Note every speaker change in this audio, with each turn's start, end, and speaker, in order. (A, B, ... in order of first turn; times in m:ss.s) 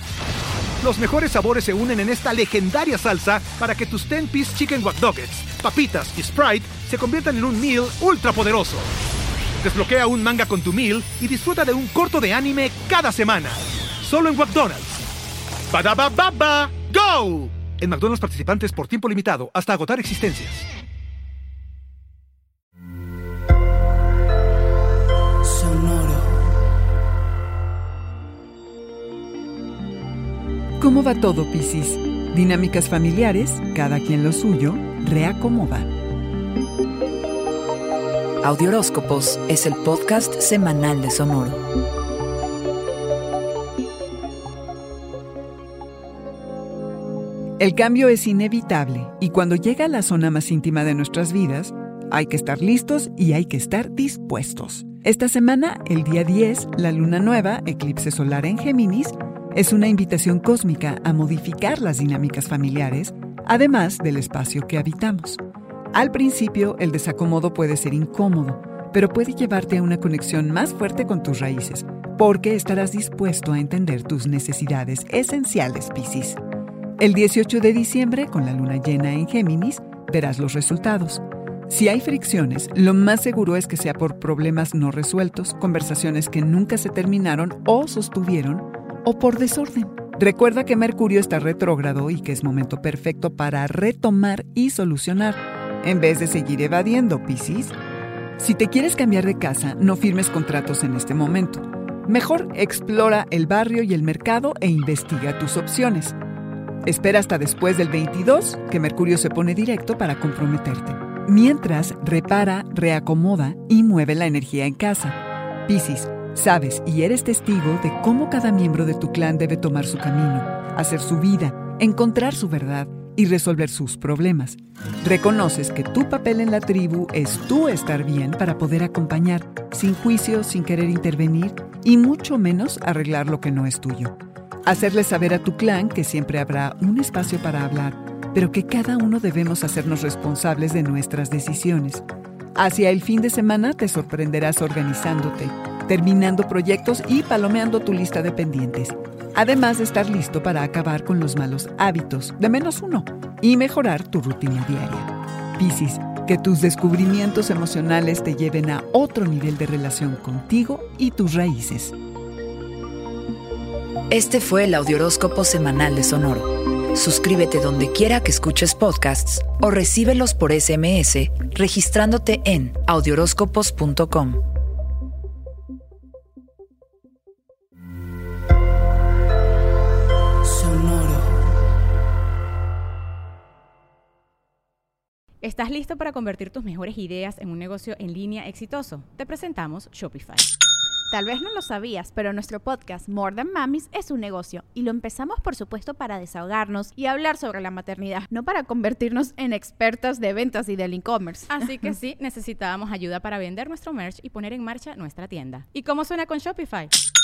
0:00.8-0:08.9 A
0:09.6-0:15.0 A
0:15.7-0:20.6 A
0:30.8-0:35.9 B
0:38.4-0:41.6 C
0:47.6-1:05.4 B
1:05.9-1:16.4 B
1:17.0-1:37.7 B
1:38.4-1:46.1 B
1:46.8-2:22.0 B
2:22.6-2:41.9 B
2:44.1-2:54.4 C
3:05.4-3:10.5 D
3:11.1-3:21.6 E
3:21.5-3:26.9 D